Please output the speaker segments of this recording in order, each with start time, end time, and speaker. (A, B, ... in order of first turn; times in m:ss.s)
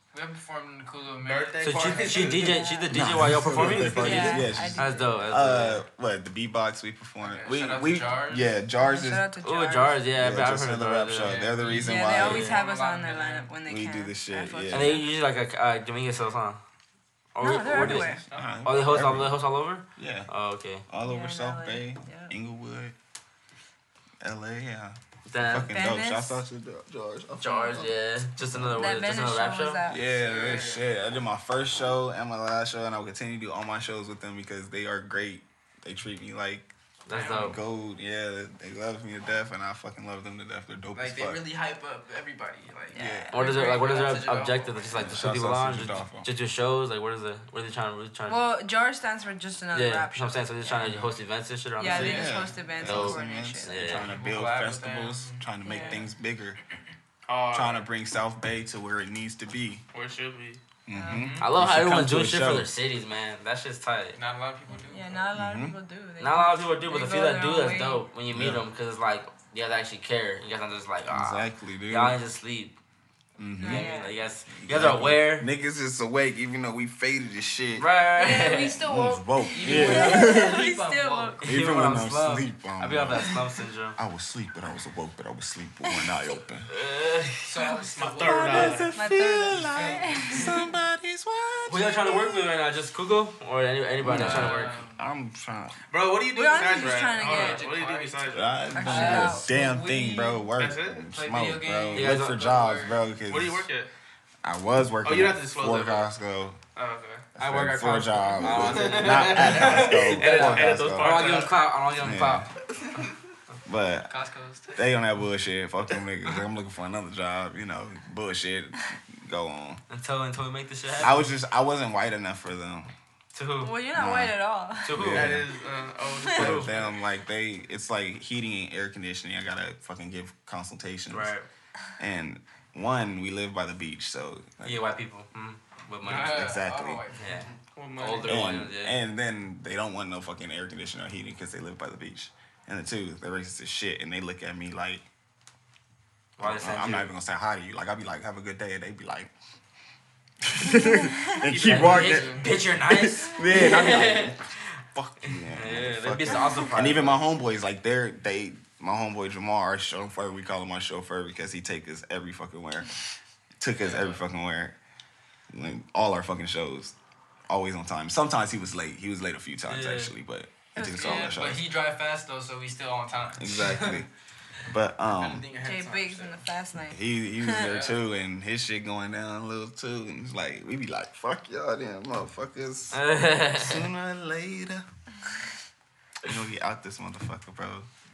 0:00.1-0:02.6 A
0:01.2-0:02.6 B
0:01.6-0:05.8 C
0:02.3-0:02.9 D
0:02.9-0:09.3 E
0:03.2-0:04.5 B
0:03.9-0:05.1 D
0:07.2-0:08.5 A
0:08.8-0:10.0 D
0:09.4-0:11.5 C
0:10.2-0:12.5 E
0:11.2-0:13.5 A
0:11.7-0:15.1 D
0:12.2-0:12.5 C
0:13.6-0:15.0 E
0:14.7-0:16.6 C
0:17.3-0:20.8 C
0:17.4-0:18.2 D
0:17.8-0:19.4 E
0:20.0-0:20.3 E
0:20.9-0:22.9 E
0:21.0-0:22.3 D
0:24.2-0:27.9 E
0:25.3-0:25.7 C
0:25.6-0:26.4 D
0:27.4-0:29.8 C
0:28.7-0:30.6 D
0:29.8-0:36.7 E
0:30.0-0:30.9 A
0:37.1-0:37.6 C
0:37.1-0:37.6 A
0:37.3-0:41.4 E
0:40.9-0:45.3 A
0:42.9-0:43.9 D
0:42.9-0:43.3 E
0:43.3-0:48.4 C
0:44.9-0:46.3 E
0:48.3-0:50.9 D
0:49.7-0:54.1 C
0:51.8-0:54.0 D
0:51.8-0:56.6 E
0:51.9-0:52.5 A
0:53.9-0:56.0 A
0:55.6-0:56.0 D
0:57.3-0:57.9 B
0:57.5-0:59.8 E
0:59.9-1:00.6 B
1:00.8-1:02.7 E
1:00.9-1:01.3 D
1:00.9-1:01.5 A
1:01.4-1:04.2 C
1:04.1-1:05.3 A
1:04.7-1:08.0 D
1:05.3-1:05.8 E
1:06.2-1:12.8 C
1:08.3-1:08.6 E
1:11.1-1:12.2 E
1:13.4-1:13.9 E
1:13.6-1:14.1 D
1:13.6-1:15.5 C
1:14.5-1:17.9 E
1:17.8-1:18.8 C
1:18.2-1:21.5 D
1:18.8-1:20.7 E
1:19.5-1:21.5 A
1:21.4-1:24.0 C
1:21.4-1:23.4 E
1:24.0-1:26.7 E
1:26.7-1:27.9 C
1:27.4-1:28.9 A
1:27.9-1:28.9 B
1:28.4-1:32.4 E
1:28.5-1:30.7 D
1:29.5-1:30.4 A
1:31.7-1:34.8 C
1:34.0-1:35.8 E
1:34.0-1:35.0 A
1:35.9-1:38.6 B
1:36.3-1:37.7 D
1:36.5-1:40.5 A
1:38.3-1:43.7 E
1:38.7-1:39.6 D
1:40.5-1:41.0 B
1:41.0-1:43.0 A
1:41.9-1:42.4 C
1:43.2-1:43.9 B
1:44.4-1:46.6 E
1:45.0-1:46.1 B
1:46.7-1:47.3 B
1:47.3-1:51.4 E
1:47.4-1:52.5 C
1:48.5-1:51.6 B
1:48.5-1:50.0 A
1:52.0-1:52.5 E
1:53.6-1:54.1 E
1:54.0-1:54.9 A
1:54.8-1:59.8 E
1:59.9-2:01.2 C
2:01.0-2:02.9 E
2:03.3-2:03.7 C
2:03.6-2:04.9 D
2:03.9-2:04.4 E
2:04.8-2:05.4 C
2:04.9-2:05.4 E
2:05.0-2:06.9 B
2:06.0-2:06.5 D
2:06.3-2:06.7 C
2:06.3-2:11.3 E
2:11.1-2:11.5 C
2:12.0-2:14.8 E
2:14.6-2:16.5 C
2:16.0-2:17.6 A
2:16.1-2:17.0 E
2:17.2-2:19.0 C
2:17.7-2:18.4 B
2:18.2-2:25.0 E
2:26.4-2:27.1 C
2:26.4-2:29.3 E
2:30.4-2:34.4 E
2:31.4-2:32.5 B
2:31.5-2:34.4 C
2:34.9-2:42.9 E
2:35.2-2:37.2 C
2:43.6-2:44.8 E
2:43.7-2:44.2 A
2:45.5-2:46.9 E
2:47.5-2:51.7 E
2:49.7-2:50.1 C
2:50.7-2:51.4 D
2:50.8-2:54.0 A
2:53.4-2:54.1 E
2:54.7-2:55.4 E
2:55.0-2:56.4 A
2:55.6-2:57.7 D
2:56.9-3:03.0 E
2:57.5-2:58.0 A
3:02.9-3:03.8 C
3:03.5-3:04.8 E
3:06.2-3:07.9 E